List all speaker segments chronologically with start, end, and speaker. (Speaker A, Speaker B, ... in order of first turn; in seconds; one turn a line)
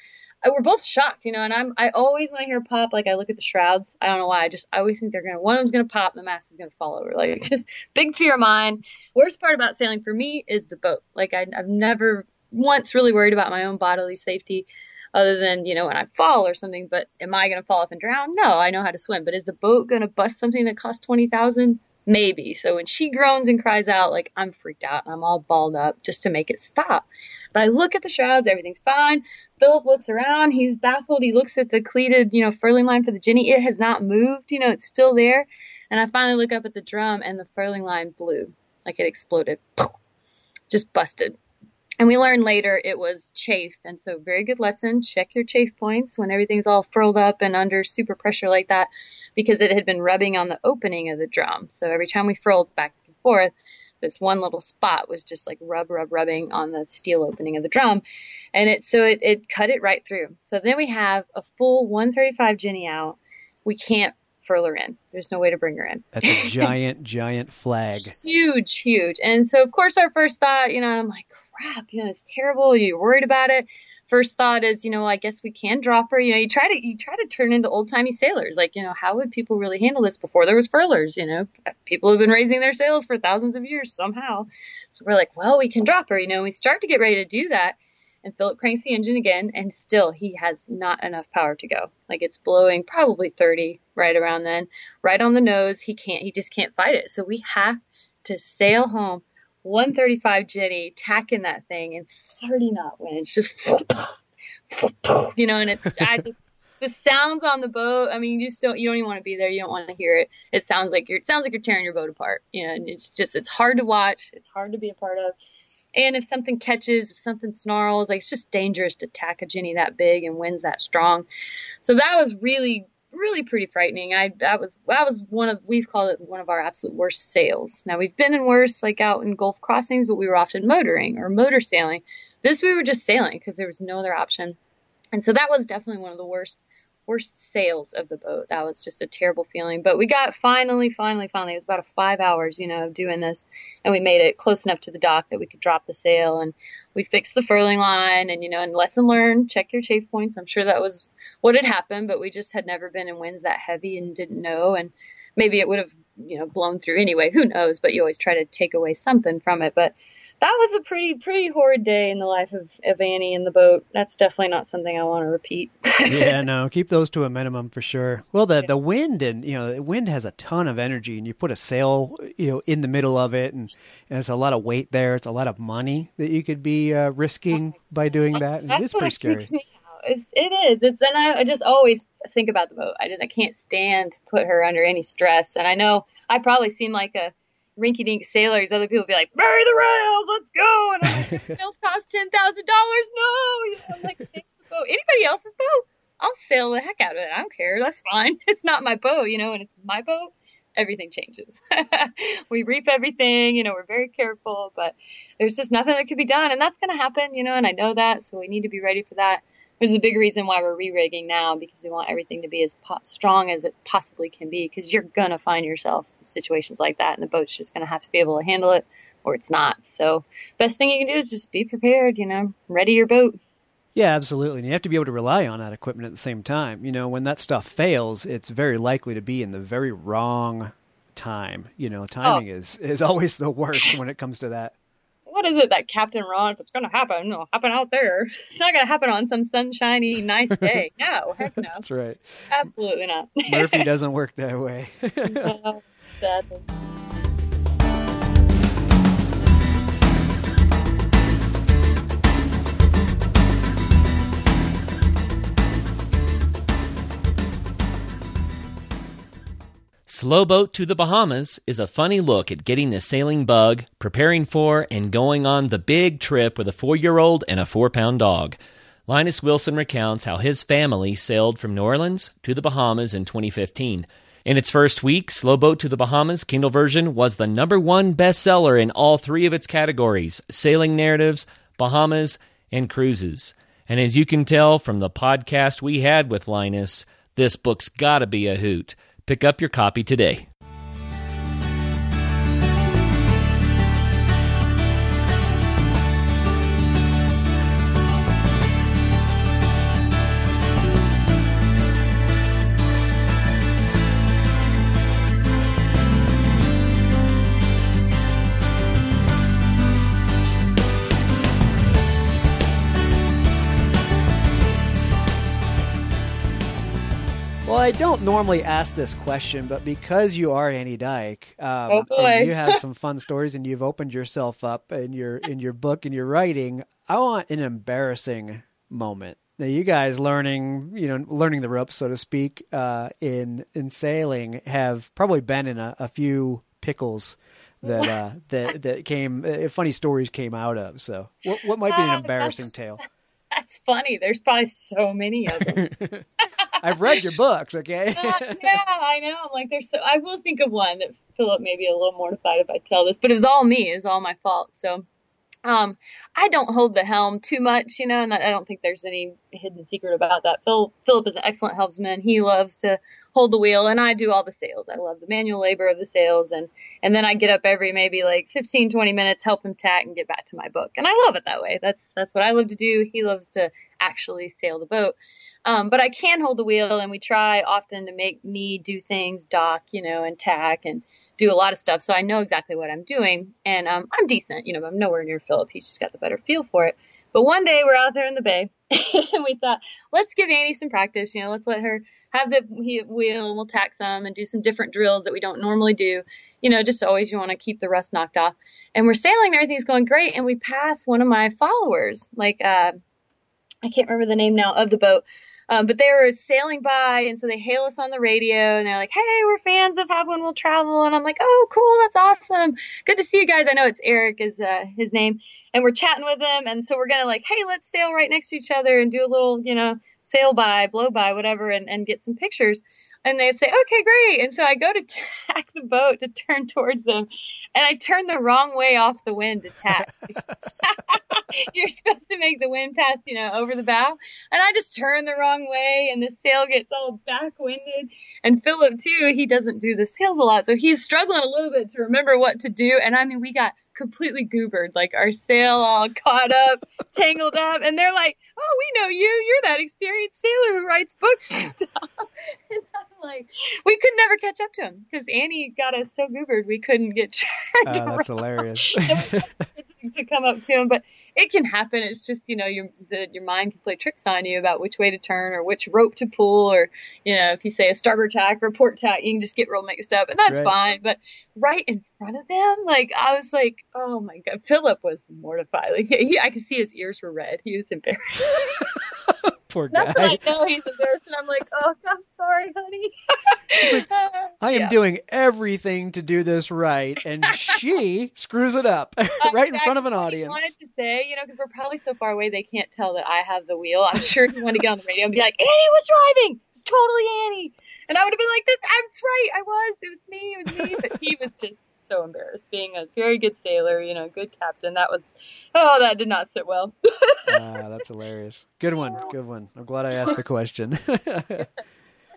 Speaker A: 0.4-39.9
Speaker A: 40.7-41.4
Speaker A: 42.0-58.0
Speaker A: 58.5-66.7
Speaker B: 66.2-68.2
Speaker A: 67.9-104.2
Speaker A: 104.7-115.3
Speaker A: 116.0-121.3
Speaker A: 121.8-134.6
Speaker A: 135.2-166.4
Speaker B: 166.1-179.5
Speaker A: 178.3-223.4
Speaker B: 223.9-234.7
Speaker A: 235.3-241.8
Speaker B: 241.6-242.2
Speaker A: 242.5-243.8
Speaker B: 243.5-245.6
Speaker A: 245.3-246.7
Speaker C: 260.1-268.6
Speaker C: 269.1-290.5
Speaker B: 317.7-343.0
Speaker A: 321.9-322.8
Speaker A: 337.9-338.1
Speaker A: 341.9-342.8
Speaker A: 343.5-345.8
Speaker B: 345.6-346.3
Speaker B: 346.8-348.8
Speaker A: 348.1-355.1
Speaker A: 355.6-375.1
Speaker A: 375.7-403.0
Speaker A: 403.9-479.1
Speaker B: 457.9-459.7
Speaker B: 470.5-470.7
Speaker B: 478.9-480.4
Speaker A: 479.9-484.9
Speaker B: 484.6-490.7
Speaker A: 489.4-507.5
Speaker B: 507.5-511.7